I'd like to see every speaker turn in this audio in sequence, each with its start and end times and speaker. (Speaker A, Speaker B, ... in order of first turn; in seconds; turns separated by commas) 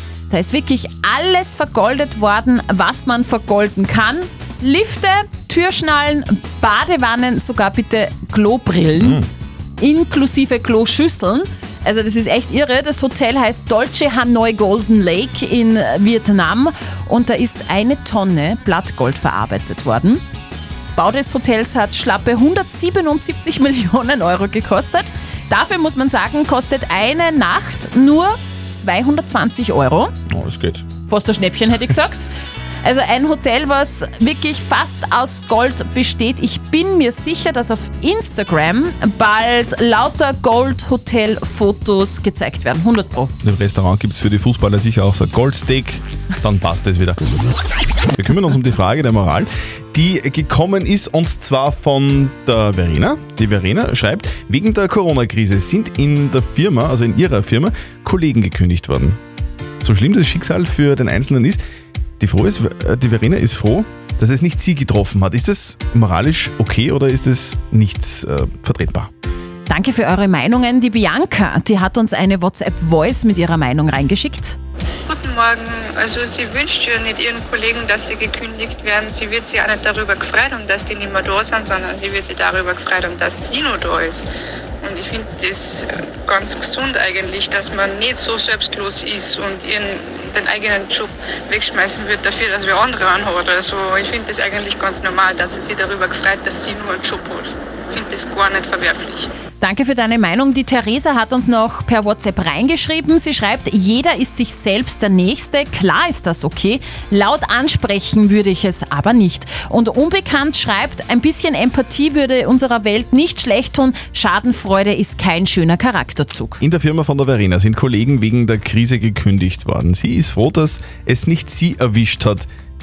Speaker A: 0.3-9.2, Speaker B: 9.0-9.3, Speaker A: 9.8-20.2, Speaker A: 21.0-30.1, Speaker B: 30.3-30.9, Speaker A: 31.1-32.3, Speaker A: 32.8-43.3, Speaker B: 43.4-47.2, Speaker B: 48.2-59.2, Speaker B: 59.8-61.6, Speaker B: 62.2-69.1, Speaker A: 69.7-74.6, Speaker C: 75.1-84.3, Speaker C: 84.8-99.3, Speaker A: 99.6-116.6, Speaker B: 116.6-122.5